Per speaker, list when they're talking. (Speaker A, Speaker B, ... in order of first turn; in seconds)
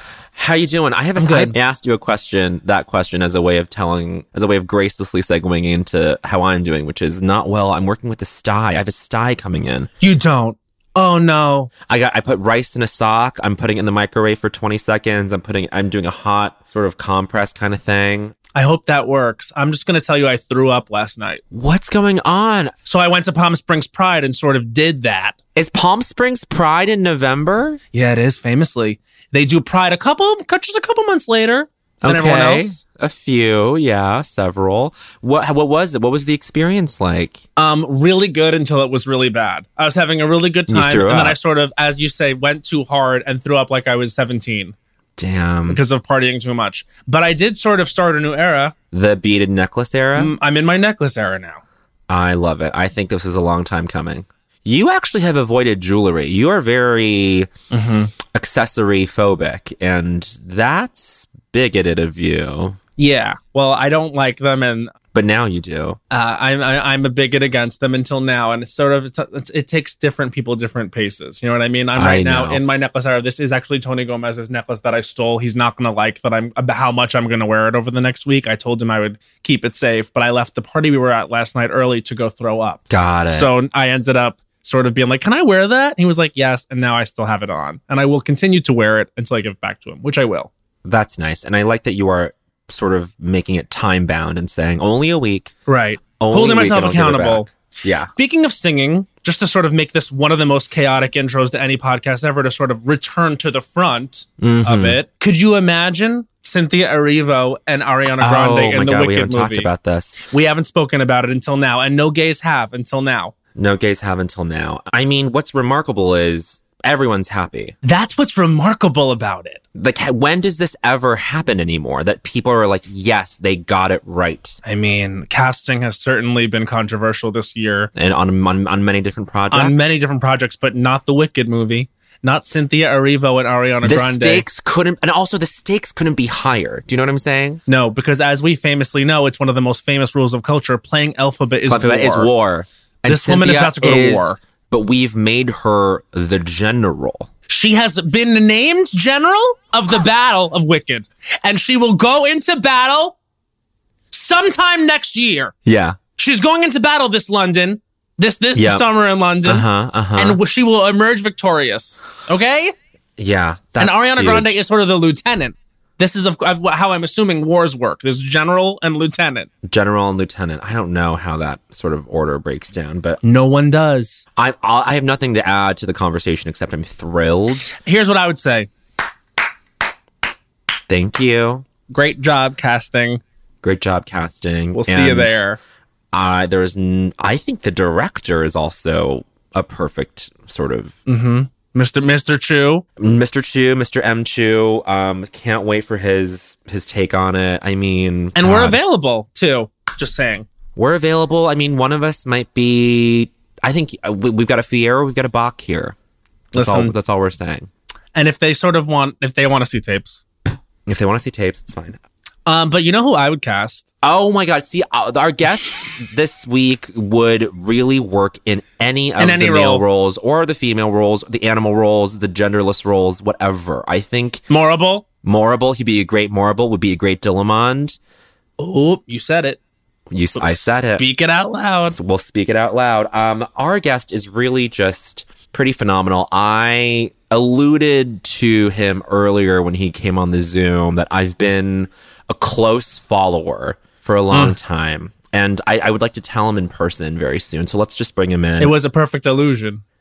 Speaker A: 0.4-9.9, 11.9-18.3, 21.5-22.7, 25.6-27.8, 32.0-37.4, 40.7-41.4, 45.2-45.8, 48.9-50.4, 52.1-57.5, 58.3-62.8, 65.1-66.0, 72.0-72.6, 82.9-83.5, 90.8-95.5, 96.2-98.1, 104.4-105.0, 108.2-110.2, 113.6-117.8, 119.8-124.6, 128.0-130.0, 133.8-137.6, 141.7-147.3, 155.7-156.0, 158.6-158.9, 159.4-160.4, 163.2-164.6, 169.6-173.2, 174.4-177.7, 180.9-181.7, 183.6-185.4, 186.1-191.0, 193.0-198.8, 200.8-205.9, 206.5-207.7, 210.9-212.0, 214.0-224.4, 225.2-228.0, 230.1-231.1, 231.9-248.7
Speaker B: 1.2-1.6, 10.0-11.7, 18.5-21.4, 22.9-25.4, 27.9-32.8, 37.6-44.8, 45.7-48.7, 50.2-51.6, 57.7-58.1, 63.0-64.9, 66.1-90.5, 95.7-97.5, 98.2-109.7, 110.3-113.3, 117.8-119.6, 124.7-127.9, 129.5-134.4, 137.7-142.3, 143.1-144.4, 147.5-153.2, 154.1-155.5, 156.2-162.7, 163.8-169.5, 173.2-174.3, 177.8-178.7, 181.9-183.2, 184.7-185.6, 191.1-192.9, 198.4-200.5, 206.5-206.9, 208.2-210.2, 212.5-213.9, 219.2-219.8, 224.5-225.1, 228.6-229.6, 230.4-232.0, 244.3-244.6, 248.6-249.8